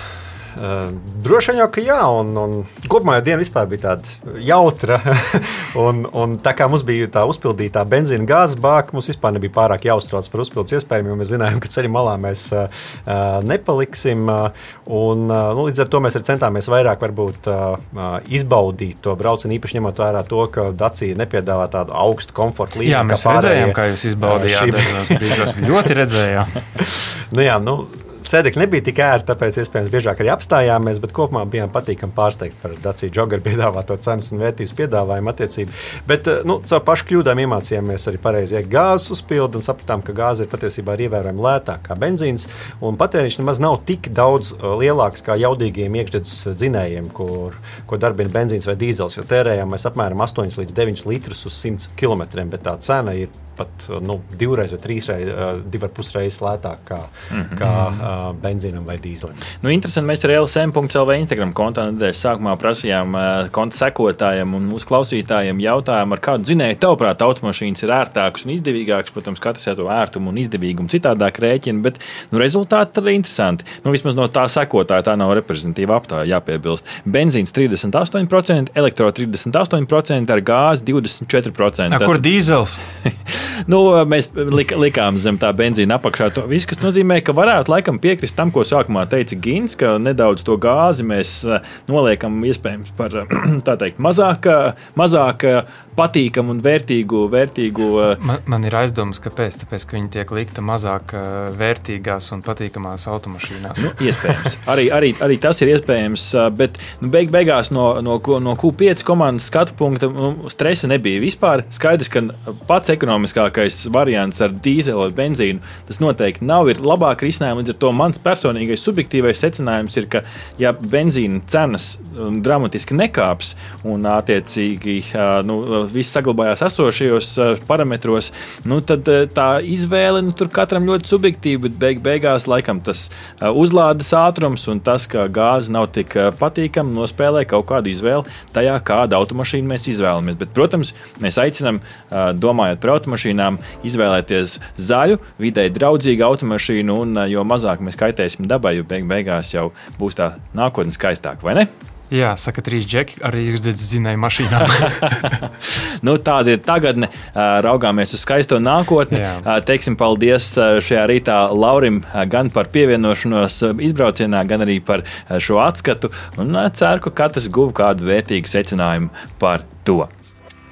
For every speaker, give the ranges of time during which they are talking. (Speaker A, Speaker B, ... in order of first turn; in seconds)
Speaker A: 0.6-25.5, 26.8-59.4
Speaker B: 22.9-26.6, 57.7-58.0, 81.9-82.8, 98.2-104.0, 152.1-155.3, 159.1-159.4
Speaker C: 57.3-57.7, 59.6-82.2, 83.3-98.2, 103.8-151.7, 156.0-170.1